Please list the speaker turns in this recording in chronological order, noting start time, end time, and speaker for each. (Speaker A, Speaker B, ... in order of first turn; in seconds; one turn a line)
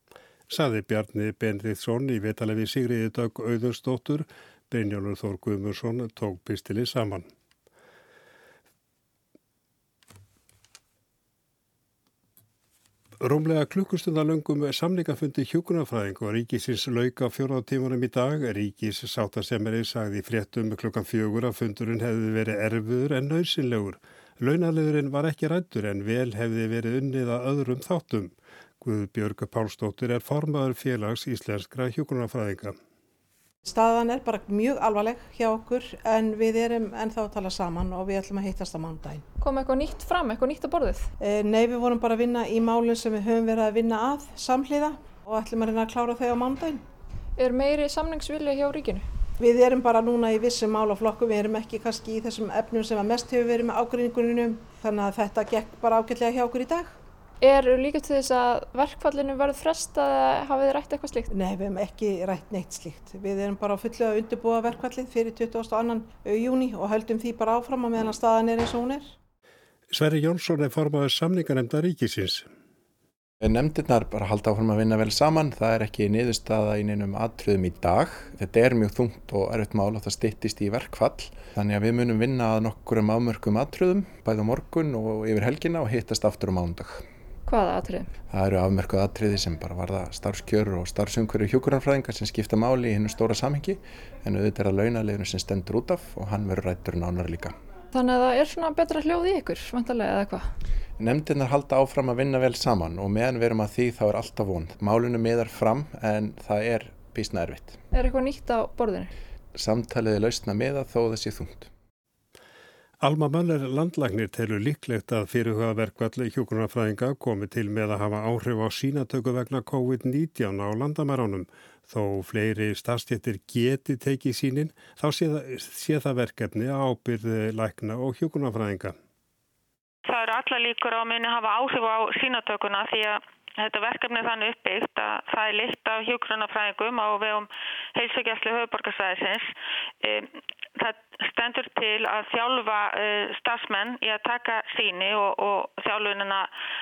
Speaker A: 0.5-7.3
Speaker A: 13.2-32.8
Speaker B: 33.6-39.2
Speaker C: 39.4-41.1
Speaker B: 41.2-46.8
Speaker C: 47.4-49.1
Speaker B: 49.4-57.0
Speaker C: 57.4-61.3
Speaker B: 61.3-69.1
Speaker A: 69.9-72.5
Speaker D: 73.4-87.0
Speaker C: 87.5-88.1
Speaker D: 88.3-97.5
Speaker C: 97.9-100.5
Speaker D: 101.0-107.8
Speaker C: 107.9-109.1
Speaker D: 109.5-111.7
Speaker A: 113.0-129.0
Speaker E: 130.1-146.5